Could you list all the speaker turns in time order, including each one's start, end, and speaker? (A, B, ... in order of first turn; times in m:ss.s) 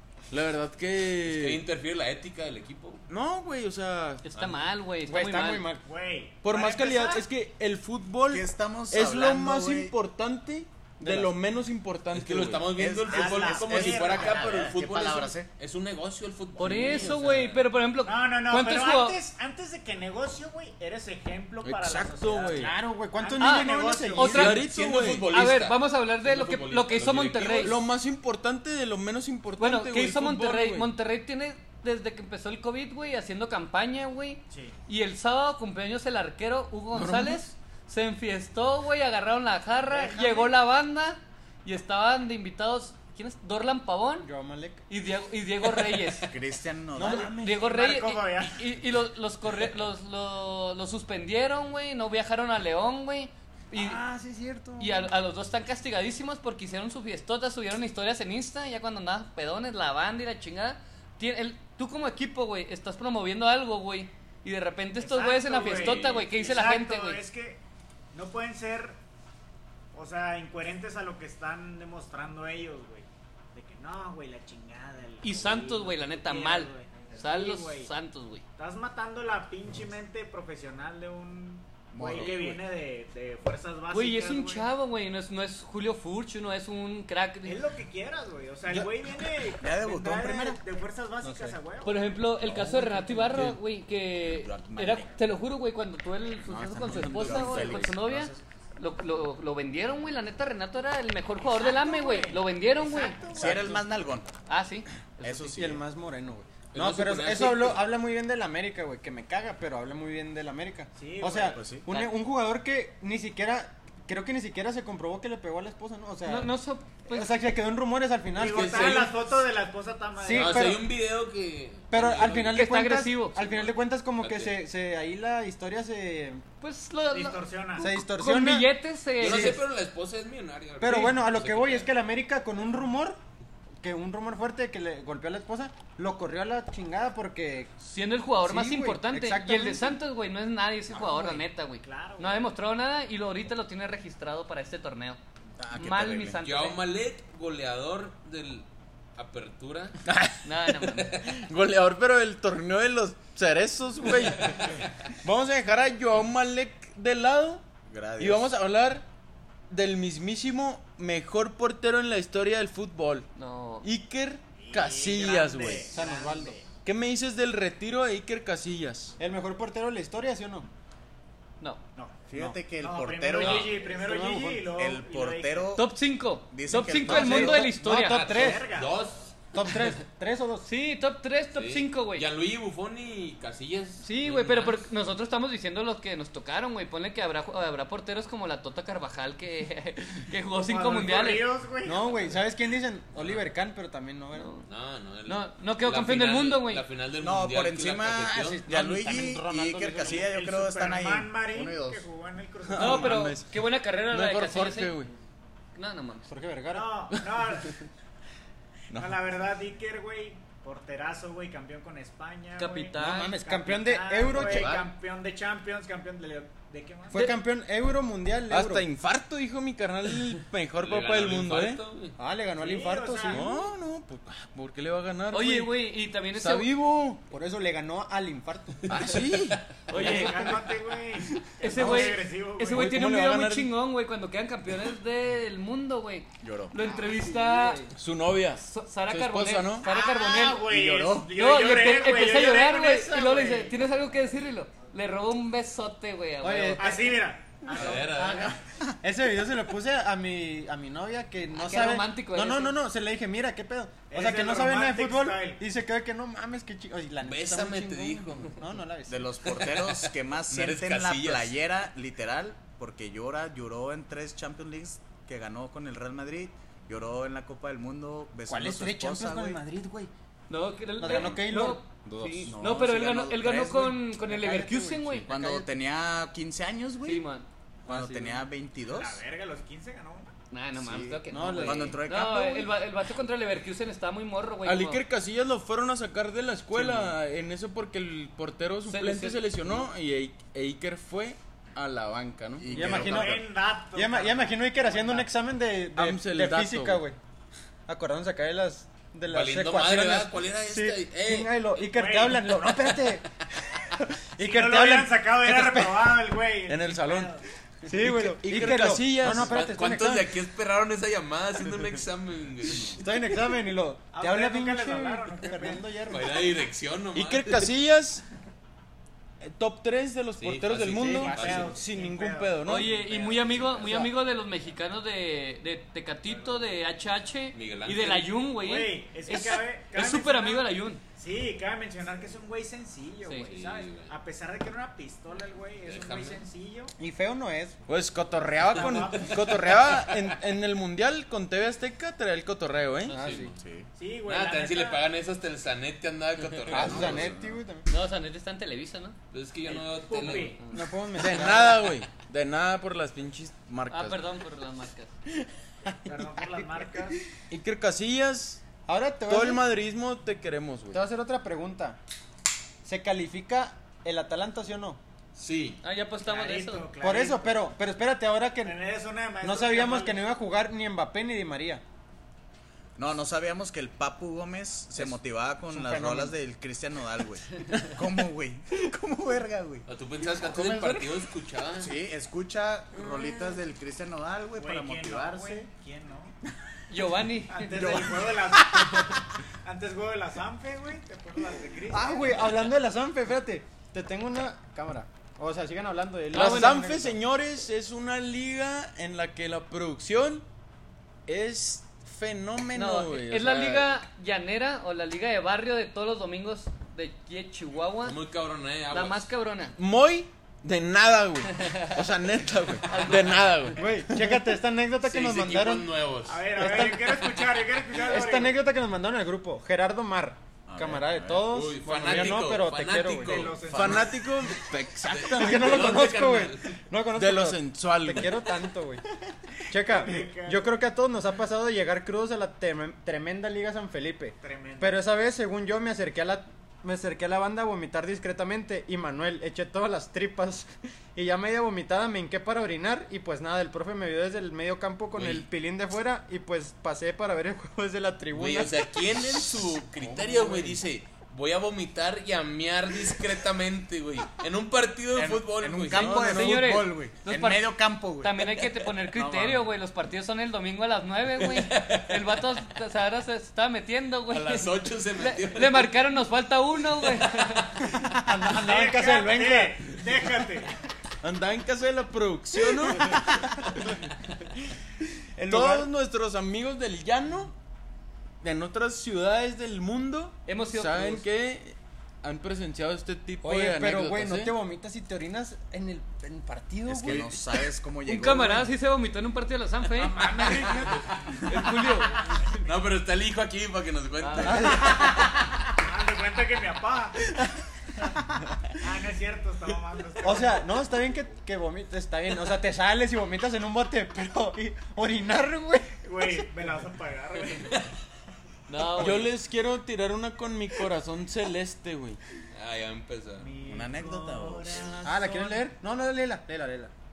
0:00.3-0:01.6 A
0:01.2-0:03.0 B
0:03.1-0:04.3 A
0:04.2-0:05.7 C
0:05.1-0:05.8 D
0:05.8-0:07.2 E
0:06.4-0:12.7 A
0:08.3-0:09.9 F
0:11.0-0:11.3 D
0:12.1-0:17.6 B
0:12.7-0:15.5 F
0:13.1-0:14.7 E
0:16.6-0:19.2 C
0:16.6-0:17.1 F
0:18.0-0:24.4 E
0:21.6-0:22.7 A
0:22.5-0:24.5 D
0:23.4-0:24.7 C
0:24.3-0:25.3 A
0:24.4-0:27.8 B
0:25.3-0:27.8 C
0:27.6-0:30.9 A
0:29.6-0:44.3 C
0:36.9-0:37.4 A
0:44.2-0:44.8 D
0:44.9-0:46.3 C
0:46.2-0:47.3 F
0:47.0-0:54.0 C
0:47.0-0:47.6 D
0:47.0-0:48.6 E
0:53.7-0:55.1 D
0:54.8-1:07.2 C
1:05.0-1:07.6 E
1:05.5-1:06.3 B
1:08.1-1:09.0 E
1:09.9-1:17.9 E
1:15.2-1:18.4 C
1:18.6-1:24.7 E
1:21.9-1:22.6 F
1:23.9-1:27.6 C
1:27.4-1:32.1 E
1:29.6-1:30.6 F
1:31.2-1:31.6 D
1:31.8-1:43.2 C
1:32.5-1:33.1 F
1:33.2-1:33.6 A
1:34.2-1:35.1 F
1:36.5-1:37.8 A
1:36.9-1:38.4 F
1:41.4-1:43.8 E
1:43.3-1:44.3 F
1:44.5-1:45.5 C
1:45.2-1:45.8 F
1:45.6-1:56.5 D
1:46.7-1:47.8 B
1:51.0-1:51.6 E
1:51.5-1:51.8 F
1:51.9-1:52.1 C
1:56.3-1:57.3 C
1:57.1-1:59.1 D
1:58.4-2:00.8 E
1:58.5-1:59.1 B
2:00.2-2:00.9 D
2:00.3-2:02.7 B
2:01.9-2:06.4 D
2:02.5-2:03.5 C
2:03.4-2:04.5 B
2:06.6-2:09.6 C
2:07.1-2:07.9 E
2:07.8-2:08.7 D
2:09.2-2:11.9 B
2:09.2-2:09.6 D
2:10.8-2:13.2 D
2:13.8-2:17.7 D
2:17.8-2:25.2 C
2:18.4-2:20.0 D
2:20.9-2:21.4 D
2:21.8-2:22.5 E
2:25.6-2:26.4 F
2:25.7-2:26.8 C
2:26.4-2:30.0 B
2:30.0-2:37.6 A
2:30.4-2:31.2 C
2:37.9-2:38.5 F
2:38.2-2:39.0 A
2:39.7-2:43.3 A
2:43.4-2:43.9 C
2:43.8-2:46.1 A
2:44.6-2:46.7 E
2:45.9-2:46.6 D
2:46.8-2:49.1 A
2:49.2-2:50.7 D
2:52.0-2:52.3 E
2:52.3-2:53.8 F
2:52.8-2:55.7 E
2:53.4-2:53.7 B
2:53.8-2:54.7 D
2:54.7-2:55.9 F
2:55.8-2:58.4 C
2:56.5-2:57.7 F
2:57.1-2:58.7 D
2:58.0-2:59.3 B
2:58.3-2:59.0 E
2:59.5-3:00.7 D
3:00.6-3:02.3 C
3:01.5-3:04.8 B
3:04.0-3:11.5 C
3:10.6-3:12.3 E
3:11.8-3:14.5 D
3:14.3-3:14.7 C
3:14.7-3:18.7 B
3:15.3-3:16.8 C
3:17.2-3:22.1 F
3:18.6-3:20.2 D
3:20.0-3:23.3 E
3:22.7-3:23.5 A
3:22.8-3:25.0 C
3:24.1-3:25.1 A
3:25.8-3:26.3 C
3:26.3-3:27.0 D
3:26.7-3:27.8 E
3:28.9-3:29.2 A
3:29.0-3:37.2 E
3:32.6-3:33.4 C
3:33.0-3:34.8 D
3:34.3-3:34.9 B
3:37.1-3:38.9 D
3:38.5-3:41.8 A
3:40.8-3:42.2 B
3:42.2-3:43.5 D
3:42.6-3:43.5 E
3:43.3-3:45.8 A
3:45.3-3:46.7 C
3:46.3-3:47.2 A
3:47.3-3:48.9 D
3:48.9-3:49.6 A
3:49.9-3:50.6 C
3:49.9-3:53.0 E
3:50.0-3:50.5 D
3:51.6-3:57.9 C
3:52.7-3:53.7 A
3:56.4-3:56.8 F
3:57.1-3:57.9 D
3:58.0-3:59.9 A
3:58.6-4:00.7 C
3:59.8-4:03.7 E
4:00.7-4:01.4 F
4:01.3-4:07.0 C
4:06.4-4:07.2 D
4:06.8-4:08.4 E
4:07.7-4:08.6 B
4:07.7-4:08.3 D
4:09.0-4:19.3 D
4:11.5-4:12.8 C
4:14.1-4:15.6 E
4:17.2-4:18.6 B
4:19.1-4:29.6 F
4:19.6-4:21.5 B
4:28.5-4:30.1 D
4:30.5-4:35.3 C
4:31.0-4:32.5 D
4:31.0-4:31.4 F
4:32.5-4:34.0 F
4:34.2-4:35.7 D
4:35.3-4:37.2 F
4:37.0-4:37.5 C
4:37.8-4:39.2 F
4:37.9-4:38.4 D
4:38.9-4:40.3 E
4:40.5-4:45.0 C
4:40.8-4:42.7 F
4:41.3-4:42.0 D
4:44.6-4:52.8 A
4:46.8-4:47.0 D
4:48.9-4:49.8 C
4:52.6-4:53.4 F
4:52.7-4:57.2 D
4:52.8-4:55.3 E
4:56.0-4:57.0 A
4:57.9-5:06.2 D
4:59.3-5:01.5 B
5:01.9-5:02.7 E
5:04.4-5:07.4 E
5:06.7-5:07.3 A
5:07.9-5:10.3 D
5:07.9-5:09.7 A
5:09.2-5:13.0 B
5:12.8-5:16.5 D
5:14.1-5:15.8 E
5:16.1-5:17.7 B
5:17.1-5:18.2 A
5:19.4-5:23.0 A
5:20.4-5:21.7 B
5:21.0-5:21.6 D
5:21.1-5:24.1 E
5:22.6-5:31.0 C
5:26.3-5:26.6 E
5:27.5-5:28.4 B
5:28.6-5:36.9 E
5:33.5-5:34.1 B
5:35.9-5:36.4 B
5:37.0-5:37.8 D
5:37.9-5:43.2 A
5:38.7-5:40.0 E
5:43.1-5:43.5 B
5:43.1-5:43.5 D
5:43.5-5:43.9 F
5:44.0-5:45.0 E
5:44.3-5:47.4 B
5:46.7-5:47.9 D
5:46.8-5:47.5 F
5:47.9-5:49.2 C
5:49.3-5:50.6 B
5:49.7-5:50.6 E
5:50.6-5:50.8 C
5:50.7-5:51.9 D
5:51.2-5:54.2 A
5:53.9-5:55.1 C
5:55.9-5:57.1 D
5:56.0-5:57.2 E
5:57.5-5:58.6 A
5:58.9-5:59.6 D
5:59.3-6:01.0 A
6:00.9-6:02.0 D
6:02.8-6:05.0 D
6:05.4-6:05.8 B
6:05.8-6:06.9 C
6:06.3-6:07.6 E
6:07.0-6:08.8 D
6:08.6-6:10.2 E
6:09.4-6:11.8 D
6:13.0-6:19.9 F
6:15.7-6:16.4 D
6:19.9-6:22.0 B
6:20.3-6:21.1 D
6:21.8-6:25.6 F
6:24.6-6:26.4 E
6:26.9-6:28.1 C
6:27.5-6:29.1 E
6:27.8-6:29.2 F
6:29.6-6:32.5 E
6:31.9-6:37.2 D
6:36.3-6:40.4 A
6:41.3-6:44.0 A
6:42.7-6:48.2 C
6:48.0-6:49.3 B
6:48.9-6:49.8 C
6:49.8-6:53.9 A
6:51.5-6:52.0 C
6:52.8-6:53.7 C
6:53.8-6:55.9 D
6:55.0-6:56.4 B
6:56.3-6:58.6 E
6:56.6-7:03.5 D
7:00.7-7:01.6 F
7:01.5-7:04.0 B
7:03.2-7:04.4 E
7:03.7-7:05.9 A
7:05.1-7:06.8 B
7:05.1-7:09.0 D
7:07.2-7:08.3 A
7:09.7-7:28.9 D
7:09.8-7:10.7 E
7:14.4-7:15.0 E
7:25.1-7:25.5 B
7:28.3-7:36.4 B
7:30.0-7:30.7 F
7:35.2-7:38.4 F
7:36.0-7:47.9 C
7:36.1-7:36.5 A
7:39.1-7:39.7 F
7:41.4-7:42.2 B
7:44.3-7:45.9 B
7:47.9-7:49.8 D
7:48.5-7:50.8 E
7:51.2-7:53.3 A
7:55.4-7:55.9 D
7:55.4-7:57.5 A
7:58.4-8:04.5 A
8:00.5-8:01.3 C
8:03.4-8:07.6 D
8:06.9-8:08.7 F
8:08.0-8:10.5 C
8:09.9-8:11.7 E
8:10.4-8:11.1 B
8:11.4-8:12.5 C
8:12.6-8:15.0 B
8:14.2-8:14.8 C
8:14.4-8:15.2 D
8:15.8-8:17.3 E
8:18.8-8:20.6 E
8:20.2-8:26.3 D
8:26.0-8:27.9 E
8:28.7-8:29.3 C
8:29.0-8:32.2 A
8:32.5-8:33.5 B
8:33.4-8:35.3 E
8:33.6-8:35.0 F
8:35.0-8:36.9 D